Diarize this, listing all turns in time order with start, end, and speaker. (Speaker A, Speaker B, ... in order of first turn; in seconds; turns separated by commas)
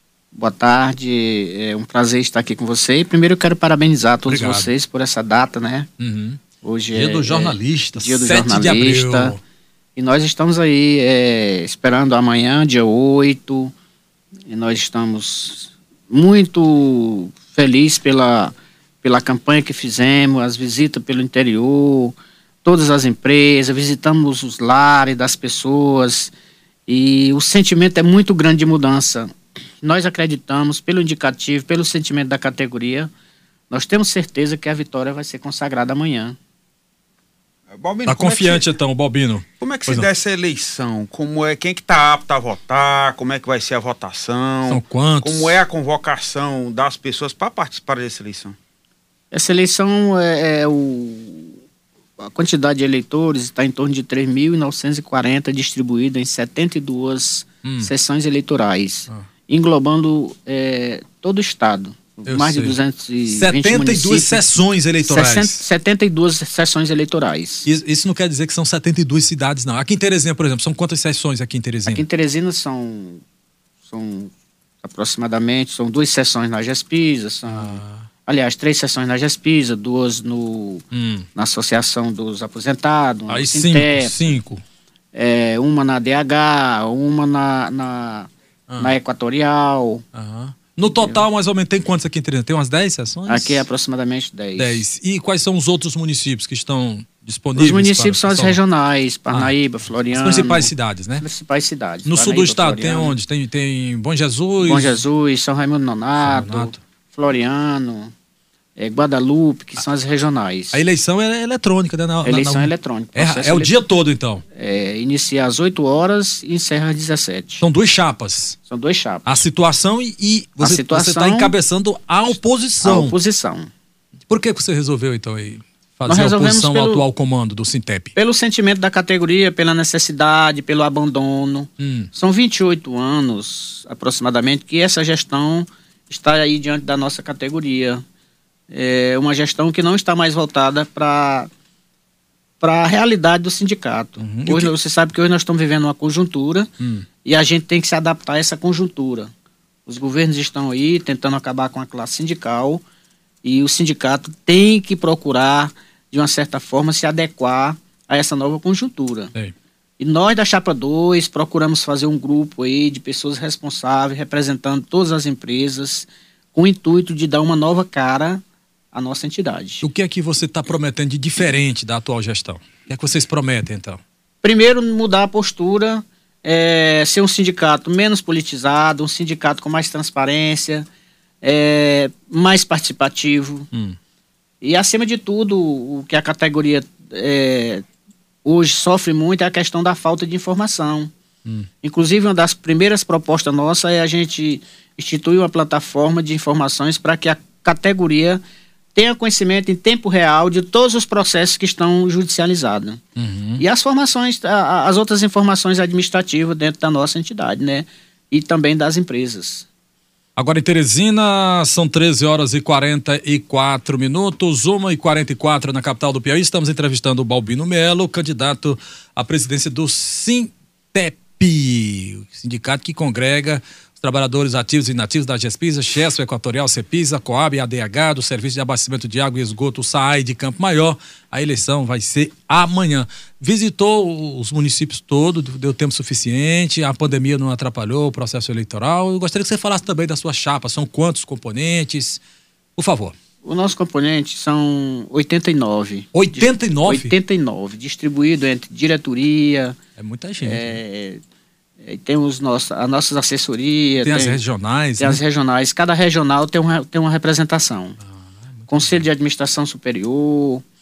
Speaker A: 0.3-5.9, Speaker B: 4.2-4.7, Speaker B: 6.0-6.4, Speaker A: 6.6-9.3, Speaker B: 6.9-9.4, Speaker A: 9.9-13.7, Speaker A: 14.5-26.3, Speaker A: 26.9-33.1, Speaker A: 33.7-36.4, Speaker C: 37.7-38.6, Speaker B: 38.0-40.1, Speaker C: 39.6-48.5, Speaker B: 44.7-45.6, Speaker A: 49.3-51.5, Speaker A: 52.2-64.5, Speaker B: 57.6-57.9, Speaker B: 62.2-62.8, Speaker B: 63.3-65.6, Speaker A: 65.0-67.7, Speaker B: 67.6-72.0, Speaker A: 71.8-73.2, Speaker A: 73.9-74.3, Speaker A: 74.8-80.8, Speaker B: 77.5-78.1, Speaker B: 80.9-81.2, Speaker A: 81.3-84.2, Speaker B: 83.3-84.6, Speaker A: 85.1-90.0, Speaker B: 90.1-93.6, Speaker A: 90.9-91.2, Speaker A: 93.3-94.8, Speaker B: 94.5-98.6, Speaker A: 97.5-103.2, Speaker B: 100.1-101.2, Speaker B: 102.0-105.0, Speaker A: 104.6-108.1, Speaker B: 106.2-106.8, Speaker A: 108.8-110.8, Speaker B: 110.7-114.4, Speaker A: 112.2-113.8, Speaker A: 114.5-117.6, Speaker B: 117.6-118.6, Speaker A: 118.7-119.4, Speaker B: 119.2-123.2, Speaker A: 120.6-121.5, Speaker A: 122.8-123.7, Speaker B: 124.3-128.1, Speaker A: 126.1-127.0, Speaker A: 128.2-138.0, Speaker B: 131.8-132.1, Speaker A: 138.7-141.5, Speaker A: 142.6-146.7, Speaker B: 144.2-144.7, Speaker B: 146.8-147.0, Speaker A: 147.2-149.3, Speaker A: 149.8-152.8, Speaker A: 153.4-159.3, Speaker A: 160.0-169.8, Speaker B: 169.8-174.0, Speaker A: 174.4-180.9, Speaker A: 181.4-183.7, Speaker A: 184.6-187.8, Speaker A: 188.4-191.1, Speaker A: 191.8-198.4, Speaker A: 198.9-203.0, Speaker B: 203.2-203.6, Speaker A: 203.6-209.7, Speaker B: 210.3-242.2, Speaker B: 242.8-243.1, Speaker A: 243.4-249.8, Speaker B: 246.1-247.1, Speaker B: 250.0-250.8, Speaker A: 250.4-251.2, Speaker A: 251.8-254.4, Speaker B: 254.0-255.2, Speaker A: 255.0-258.0, Speaker B: 258.1-259.0, Speaker A: 258.7-260.6